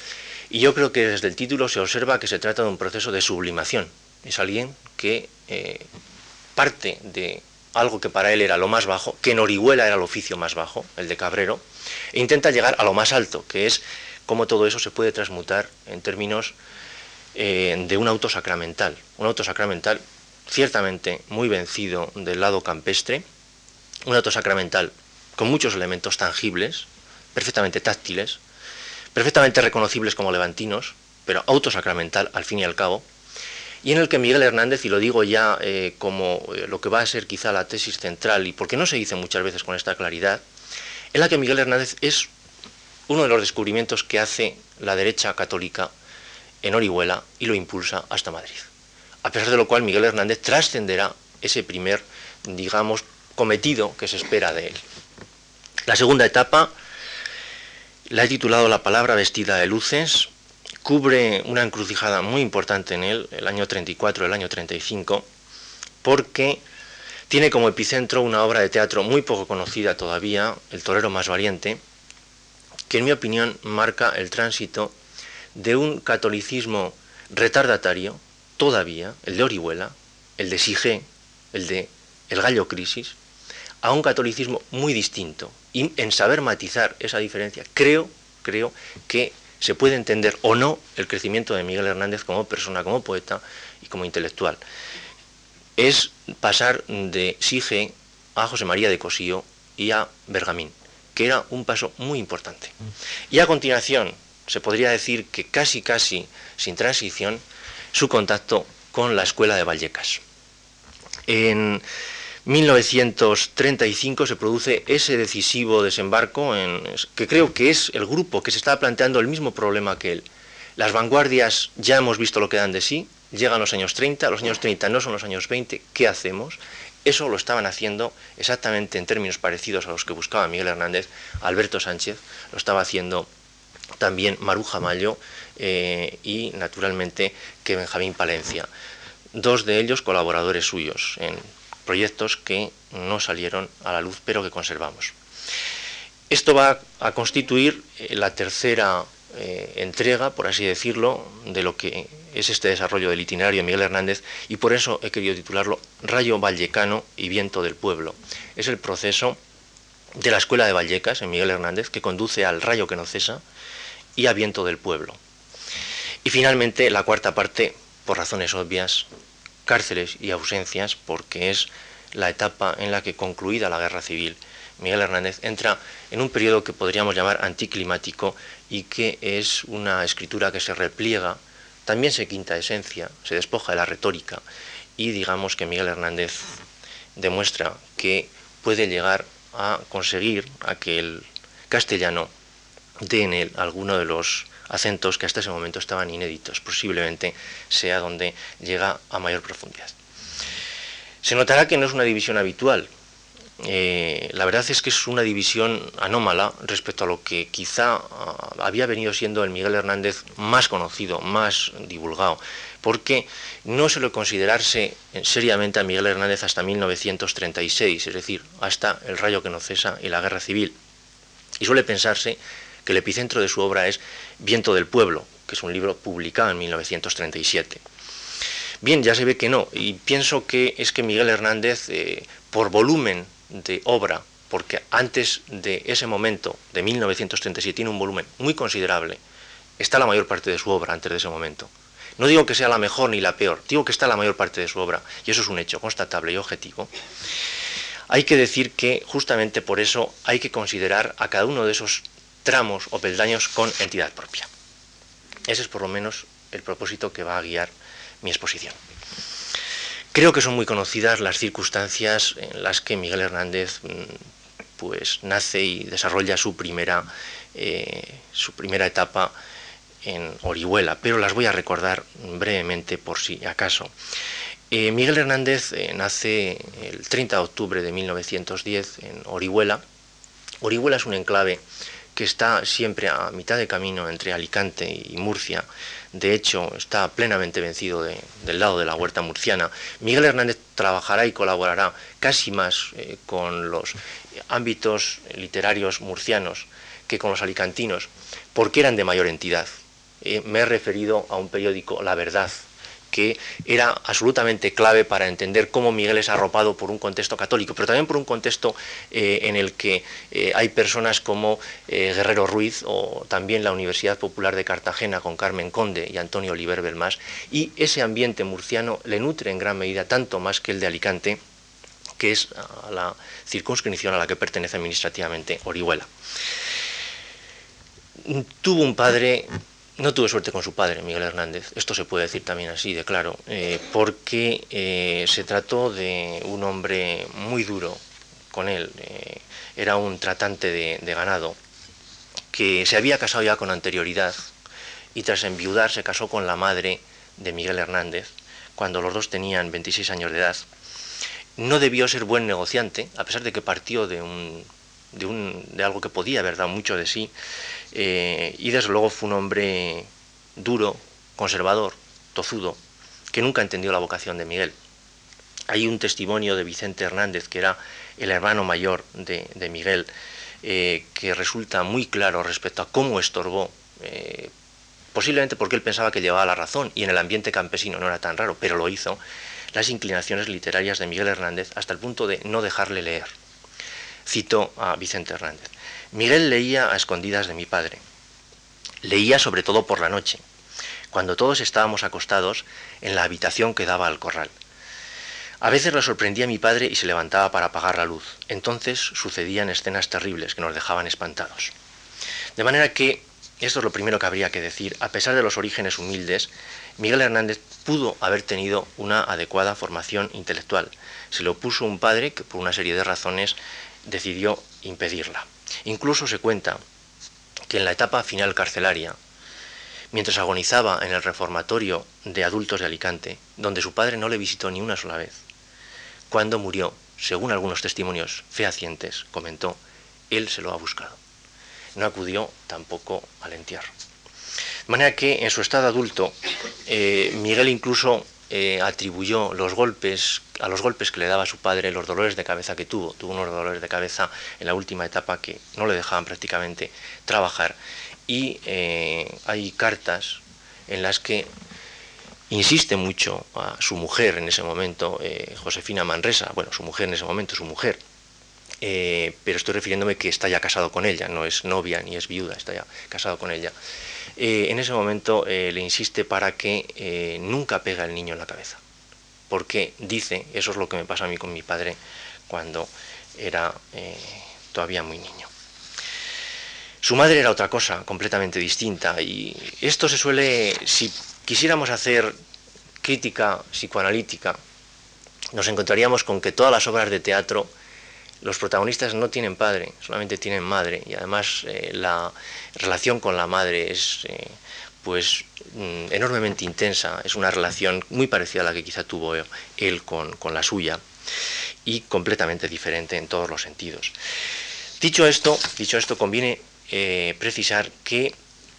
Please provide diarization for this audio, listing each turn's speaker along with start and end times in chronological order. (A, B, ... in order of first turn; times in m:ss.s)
0:00.5-0:05.9 A
0:06.6-0:16.6 A
0:17.3-0:23.2 A
0:24.0-0:28.4 A
0:29.1-0:33.0 A
0:33.8-0:40.4 A
0:41.1-0:42.3 A
0:43.1-0:45.9 A
0:46.6-0:48.7 A
0:49.2-0:54.8 A
0:55.9-0:56.7 A
0:58.1-1:00.3 A
1:00.8-1:05.3 A
1:06.0-1:06.6 A
1:07.3-1:11.8 A
1:12.9-1:14.9 A
1:15.5-1:23.2 A
1:23.8-1:34.6 A
1:35.8-1:42.7 A
1:43.3-1:47.4 A
1:47.9-1:50.2 A
1:51.3-1:51.8 A
1:52.4-2:00.2 A
2:00.8-2:13.3 A
2:14.0-2:18.7 A
2:19.3-2:25.1 A
2:26.3-2:39.4 A
2:40.1-2:43.4 A
2:44.2-2:45.2 A
2:46.2-2:49.1 A
2:49.6-3:04.4 A
3:05.0-3:06.6 A
3:07.2-3:12.3 A
3:13.0-3:19.9 A
3:21.2-3:22.9 A
3:23.6-3:40.8 A
3:41.6-3:47.8 A
3:48.8-3:59.2 A
3:59.8-4:06.9 A
4:08.1-4:14.5 A
4:15.5-4:18.8 A
4:20.1-4:24.2 A
4:24.8-4:29.3 A
4:30.0-4:33.9 A
4:34.7-4:39.8 A
4:40.6-4:41.6 A
4:42.1-4:54.0 A
4:54.5-4:59.7 A
5:00.2-5:21.4 A
5:22.2-5:26.1 A
5:28.2-5:41.6 A
5:42.5-5:44.5 A
5:45.1-5:50.7 A
5:51.6-5:57.3 A
5:57.9-6:02.8 A
6:03.3-6:04.8 A
6:05.7-6:10.1 A
6:10.6-6:14.5 A
6:15.1-6:19.2 A
6:19.7-6:23.3 A
6:24.2-6:28.0 A
6:29.0-6:30.4 A
6:31.1-6:34.5 A
6:35.6-6:41.7 A
6:42.6-6:56.8 A
6:57.7-6:59.2 A
7:00.1-7:05.4 A
7:06.3-7:09.8 A
7:10.3-7:11.2 A
7:12.0-7:13.9 A
7:14.9-7:31.5 A
7:32.5-7:38.0 A
7:38.8-7:43.7 A
7:44.4-7:48.8 A
7:49.5-7:52.0 A
7:52.5-7:55.5 A
7:57.0-8:02.3 A
8:03.0-8:04.6 A
8:05.5-8:07.7 A
8:08.4-8:21.0 A
8:21.8-8:24.1 A
8:25.0-8:28.3 A